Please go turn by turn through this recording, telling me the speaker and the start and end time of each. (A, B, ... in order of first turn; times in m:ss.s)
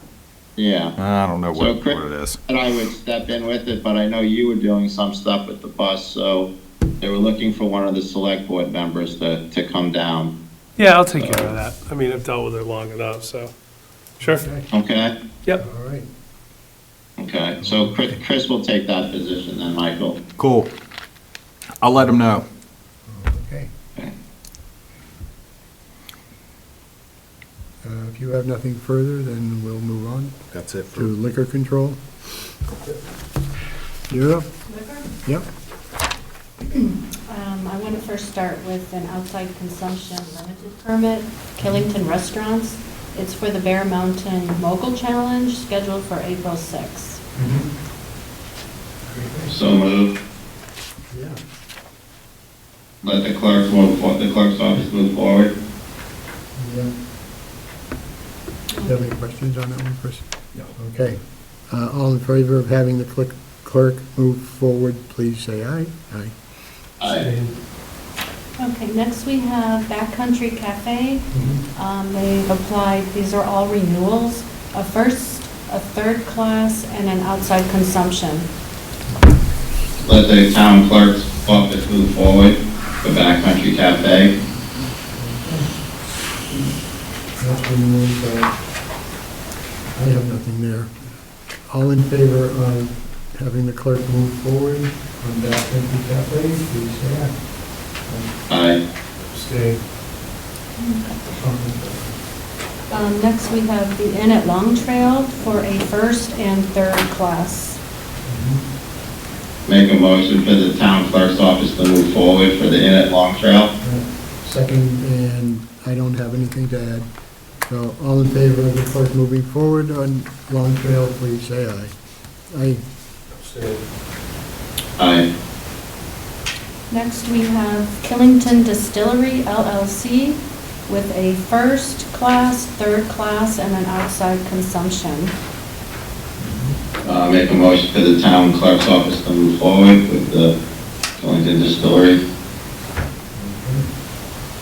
0:00.6-0:00.9 A
0:01.0-0:02.4 B
0:01.5-0:06.5 A
0:07.0-0:10.3 A
0:10.8-0:13.5 C
0:11.2-0:11.5 A
0:14.2-0:14.7 D
0:14.7-0:15.1 A
0:15.6-0:16.1 D
0:17.2-0:20.2 A
0:17.6-0:18.2 D
0:20.4-0:20.7 B
0:21.8-0:22.4 B
0:23.1-0:23.7 D
0:27.8-0:30.4 D
0:30.5-0:31.1 B
0:30.9-0:32.0 D
0:34.1-0:34.5 D
0:34.7-0:35.1 E
0:36.7-0:47.2 E
0:41.6-0:41.9 D
0:47.3-0:47.7 D
0:49.0-0:49.5 D
0:49.5-0:50.1 A
0:51.1-0:51.4 D
0:53.0-0:55.5 A
0:56.6-0:56.9 D
0:58.8-1:06.3 D
1:07.0-1:07.2 A
1:07.1-1:07.5 C
1:08.6-1:18.5 E
1:11.3-1:11.6 D
1:20.0-1:24.3 A
1:25.1-1:25.7 D
1:27.4-1:28.5 D
1:29.9-1:30.9 D
1:31.7-1:37.4 D
1:38.0-1:38.3 D
1:38.5-1:38.8 A
1:39.3-1:39.8 C
1:40.8-1:41.2 E
1:41.3-1:42.1 D
1:42.9-1:47.8 E
1:48.2-1:48.6 D
1:49.7-1:53.7 A
1:53.8-1:57.1 D
1:57.6-2:01.9 D
2:02.5-2:02.8 D
2:03.3-2:03.8 C
2:05.0-2:05.2 A
2:06.9-2:15.3 E
2:16.4-2:16.8 D
2:17.0-2:20.5 A
2:21.2-2:22.2 A
2:23.3-2:23.9 D